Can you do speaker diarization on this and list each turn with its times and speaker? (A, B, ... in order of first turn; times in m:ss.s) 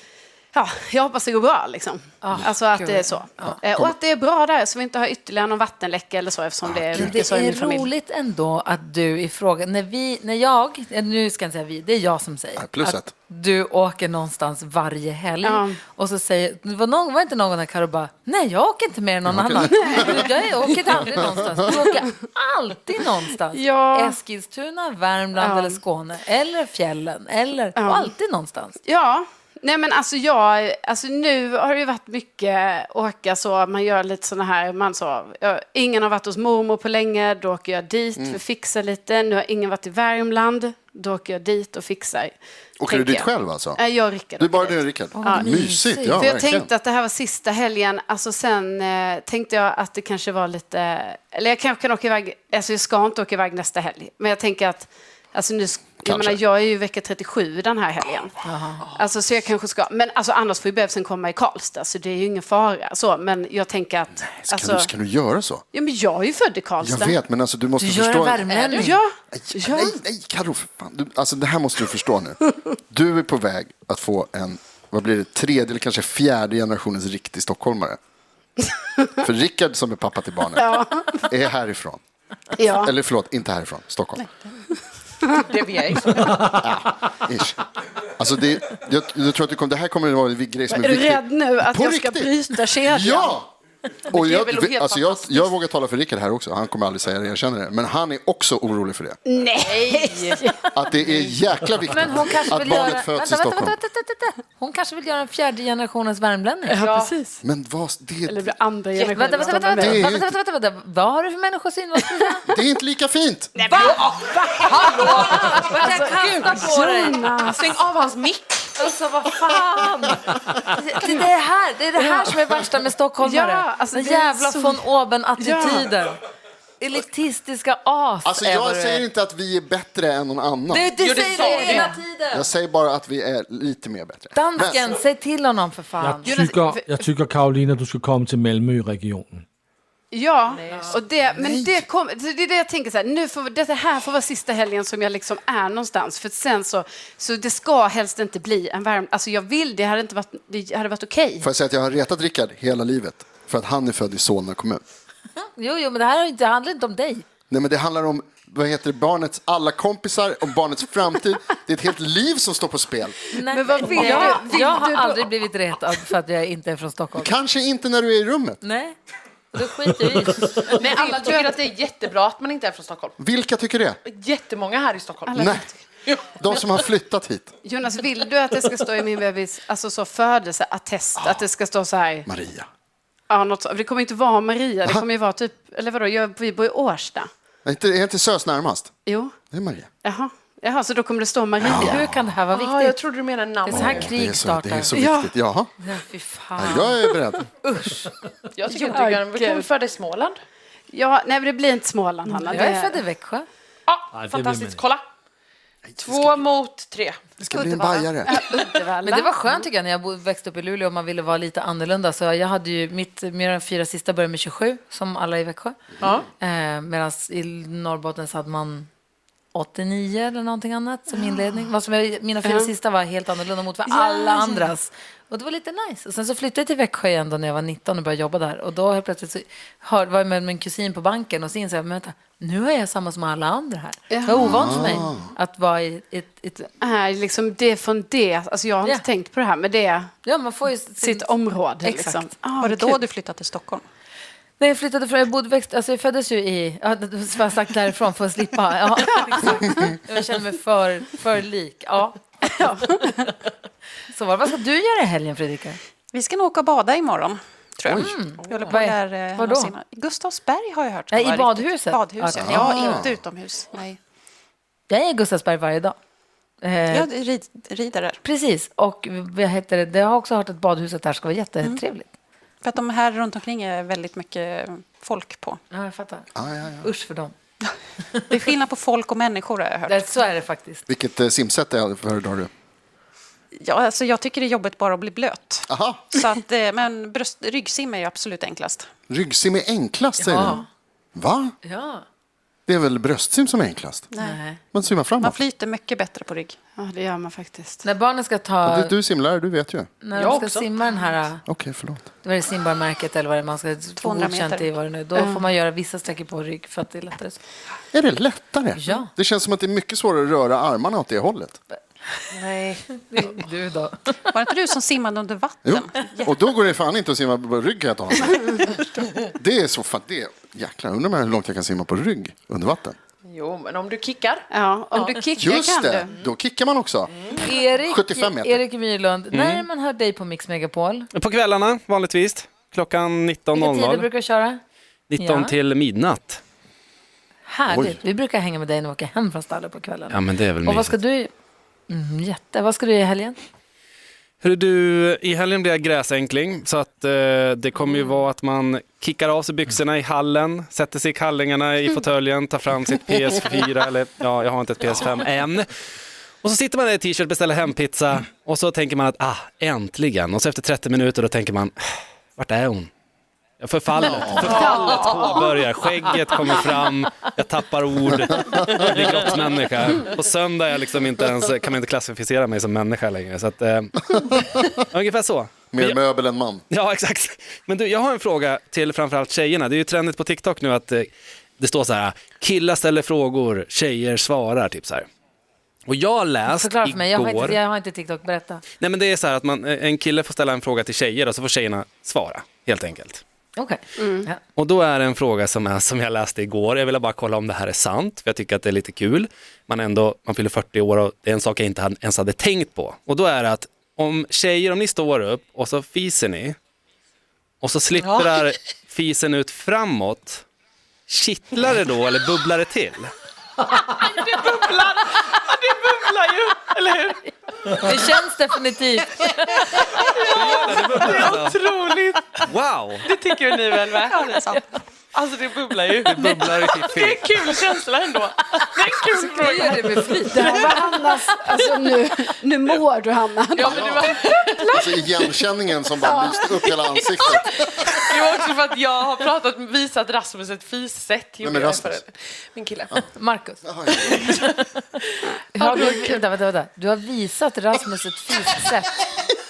0:00.5-0:07.9 A
0:02.2-0:03.6 B
0:03.4-0:03.9 C
0:06.6-0:07.1 C
0:06.9-0:28.8 B
0:12.6-0:13.1 C
0:15.4-0:15.8 A
0:19.3-0:20.2 C
0:19.7-0:20.3 A
0:23.5-0:24.2 A
0:25.4-0:25.8 A
0:27.8-0:28.1 A
0:28.8-0:45.5 A
0:42.8-0:43.8 C
0:44.4-0:46.7 C
0:45.2-0:46.2 B
0:46.1-0:58.4 A
0:56.0-0:56.4 C
0:58.4-0:58.8 B
0:59.0-1:04.9 A
1:04.2-1:05.6 C
1:05.7-1:07.2 A
1:06.8-1:08.6 C
1:07.8-1:09.0 B
1:08.5-1:08.9 D
1:08.7-1:09.9 A
1:09.3-1:18.0 C
1:19.2-1:20.7 C
1:20.6-1:21.2 A
1:21.2-1:22.0 C
1:22.6-1:22.9 A
1:22.8-1:24.2 C
1:24.2-1:24.6 E
1:25.4-1:26.4 D
1:26.4-1:33.5 C
1:30.7-1:33.4 A
1:34.1-1:35.5 D
1:34.1-1:39.2 C
1:39.3-1:40.5 A
1:39.6-1:40.4 D
1:40.1-1:40.4 B
1:40.8-1:43.8 C
1:41.9-1:47.1 B
1:46.7-1:47.4 A
1:47.4-1:48.5 C
1:48.3-1:50.0 A
1:49.0-1:52.4 B
1:49.4-1:50.3 C
1:52.5-1:53.6 C
1:53.6-1:57.7 A
1:53.7-1:54.0 B
1:53.9-1:56.7 D
1:55.0-1:57.2 B
1:57.4-1:58.7 D
1:58.8-2:06.2 B
2:02.0-2:02.4 A
2:03.2-2:04.8 A
2:05.4-2:05.9 A
2:06.8-2:09.0 B
2:08.2-2:10.9 C
2:10.7-2:12.5 B
2:11.0-2:12.0 D
2:12.3-2:14.8 C
2:14.3-2:16.3 B
2:16.0-2:19.4 F
2:16.2-2:17.1 A
2:20.1-2:31.5 A
2:20.5-2:21.0 D
2:21.4-2:21.8 C
2:31.4-2:34.8 C
2:35.6-2:37.2 B
2:37.5-2:43.2 C
2:43.3-2:47.3 B
2:43.5-2:45.3 A
2:47.2-2:48.6 C
2:48.6-2:48.9 B
2:49.5-2:51.4 B
2:50.6-2:53.2 D
2:53.2-2:54.0 C
2:54.1-2:56.3 D
2:55.3-2:55.7 A
2:55.4-2:55.6 C
2:56.2-2:57.5 C
2:57.6-3:02.3 A
3:01.2-3:01.4 C
3:02.3-3:02.7 C
3:03.3-3:07.3 A
3:07.6-3:08.9 C
3:09.1-3:09.3 A
3:09.5-3:09.9 C
3:10.0-3:12.1 A
3:11.6-3:12.2 C
3:11.7-3:13.0 B
3:12.5-3:14.1 D
3:13.6-3:14.9 B
3:13.7-3:15.7 C
3:14.9-3:15.3 A
3:15.8-3:17.0 B
3:16.6-3:17.5 C
3:17.6-3:18.1 B
3:18.6-3:20.4 D
3:18.7-3:19.7 A
3:20.9-3:23.0 A
3:22.5-3:23.5 B
3:23.9-3:25.1 D
3:24.1-3:24.8 F
3:25.9-3:26.4 C
3:26.0-3:28.1 D
3:27.4-3:28.4 C
3:28.3-3:29.6 A
3:29.0-3:35.8 B
3:36.0-3:36.3 D
3:36.4-3:38.9 B
3:39.5-3:56.7 B
3:43.9-3:44.7 A
3:54.1-3:55.0 A
3:54.4-3:55.3 C
3:56.8-4:00.1 A
4:00.2-4:02.3 B
4:01.0-4:03.0 A
4:02.6-4:03.9 E
4:04.6-4:12.2 B
4:12.6-4:13.3 A
4:14.1-4:15.8 B
4:16.1-4:24.0 E
4:17.9-4:19.7 B
4:18.4-4:18.8 D
4:21.1-4:23.0 B
4:22.4-4:23.2 C
4:24.9-4:26.0 B
4:26.6-4:27.1 B
4:26.9-4:28.2 E
4:28.2-4:32.1 B
4:32.6-4:35.6 E
4:35.7-4:37.3 B
4:36.4-4:36.9 C
4:38.3-4:40.1 E
4:39.9-4:40.8 B
4:40.9-4:42.5 C
4:43.5-4:48.9 E
4:45.7-4:46.0 C
4:49.1-4:50.6 C
4:50.2-4:50.6 B
4:51.2-4:51.5 C
4:51.6-4:52.0 B
4:52.7-4:54.1 C
4:54.1-4:54.4 E
4:54.2-4:54.6 B
4:54.7-4:55.4 C
4:55.2-4:56.6 E
4:56.8-4:57.8 A
4:57.8-4:58.9 B
4:58.6-4:59.9 C
5:00.0-5:01.4 B
5:00.1-5:00.7 D
5:01.5-5:02.1 C
5:02.2-5:07.4 B
5:04.0-5:04.8 E
5:05.2-5:05.4 A
5:07.9-5:11.6 C
5:08.8-5:09.1 B
5:12.3-5:12.9 D
5:12.9-5:14.0 B
5:14.3-5:16.4 E
5:15.6-5:23.0 C
5:23.3-5:25.0 D
5:24.5-5:26.2 A
5:25.4-5:28.6 C
5:27.4-5:31.1 B
5:29.3-5:29.6 G
5:31.2-5:34.1 G
5:33.5-5:34.6 B
5:35.1-5:36.4 G
5:35.2-5:35.5 B
5:37.5-5:41.3 B
5:37.7-5:38.0 C
5:40.1-5:41.0 G
5:41.9-5:43.4 B
5:44.4-5:55.7 G
5:56.4-6:01.8 G
6:02.4-6:02.9 G
6:03.6-6:16.0 G
6:04.5-6:05.4 D
6:08.4-6:08.8 C
6:14.1-6:14.5 C
6:15.7-6:16.6 C
6:16.7-6:25.1 G
6:25.9-6:27.6 G
6:26.5-6:28.6 B
6:28.8-6:33.2 G
6:33.6-6:34.4 B
6:34.0-6:34.3 A
6:34.6-6:46.6 G
6:47.6-6:50.4 G
6:48.0-6:48.6 D
6:51.1-6:53.1 G
6:53.7-6:57.3 D
6:57.7-7:00.1 B
6:59.5-7:02.4 D
7:00.3-7:01.6 G
7:02.5-7:03.1 G
7:03.0-7:04.5 D
7:04.2-7:04.6 B
7:04.4-7:04.8 E
7:05.1-7:11.6 D
7:06.1-7:07.5 G
7:09.1-7:10.9 B
7:09.5-7:15.2 A
7:13.5-7:15.4 D
7:13.6-7:14.2 C
7:14.7-7:17.8 C
7:16.0-7:16.5 A
7:16.0-7:23.0 D
7:21.4-7:22.0 C
7:23.1-7:24.9 B
7:23.6-7:24.2 C
7:23.9-7:24.5 D
7:25.5-7:29.1 B
7:25.6-7:26.2 D